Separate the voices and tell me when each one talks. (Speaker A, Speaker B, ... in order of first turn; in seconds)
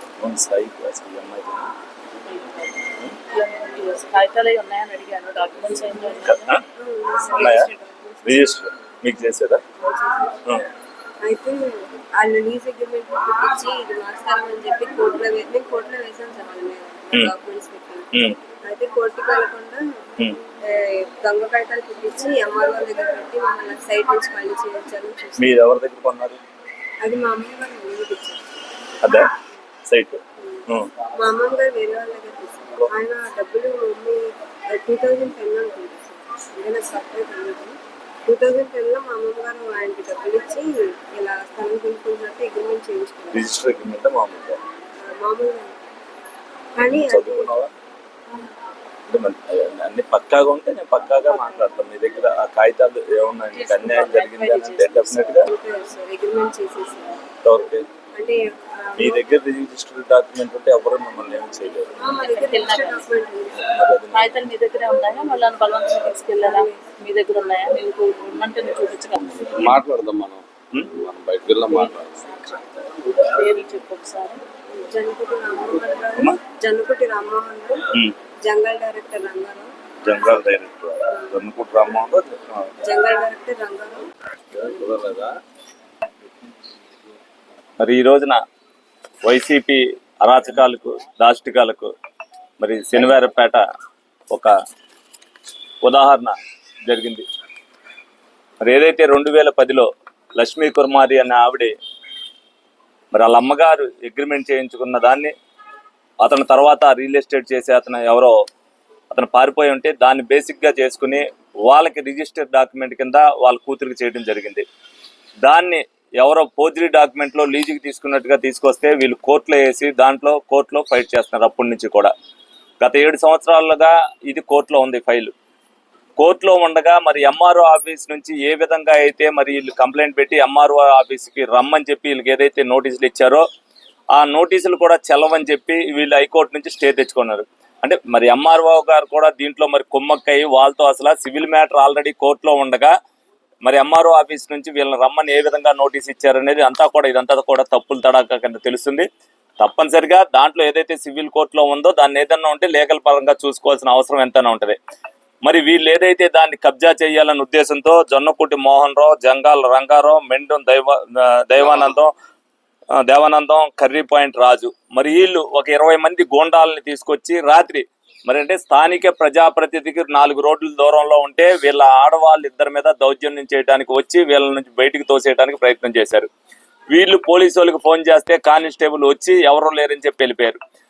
Speaker A: 0.2-1.7, 6.3-6.6, 7.4-7.7, 8.2-9.6, 25.4-26.4, 29.0-29.3, 29.9-30.9, 43.3-44.6, 47.0-47.7, 49.1-55.5, 57.4-57.8, 59.0-62.0, 63.6-64.3, 80.0-82.7, 87.8-88.4, 89.2-91.9, 92.6-93.6, 95.8-97.2, 98.6-101.7, 103.1-105.3, 106.2-108.3, 109.1-114.6, 115.4-122.1, 122.8-125.3, 126.2-133.4, 134.1-142.9, 143.6-149.1, 149.6-154.8, 155.4-162.1, 163.0-176.3, 176.9-180.6
Speaker B: 2.2-6.5, 53.5-55.2, 62.1-63.1, 64.1-69.7, 71.8-74.4
Speaker C: 6.8-8.6, 9.8-10.4, 11.2-18.1, 18.6-25.6, 27.0-28.4, 30.4-43.4, 45.0-45.8, 46.8-47.5, 55.4-57.2, 58.1-59.2, 62.0-63.7, 66.4-66.8, 74.8-77.8, 78.4-79.7, 82.8-84.0
Speaker D: 69.4-72.1, 84.6-85.3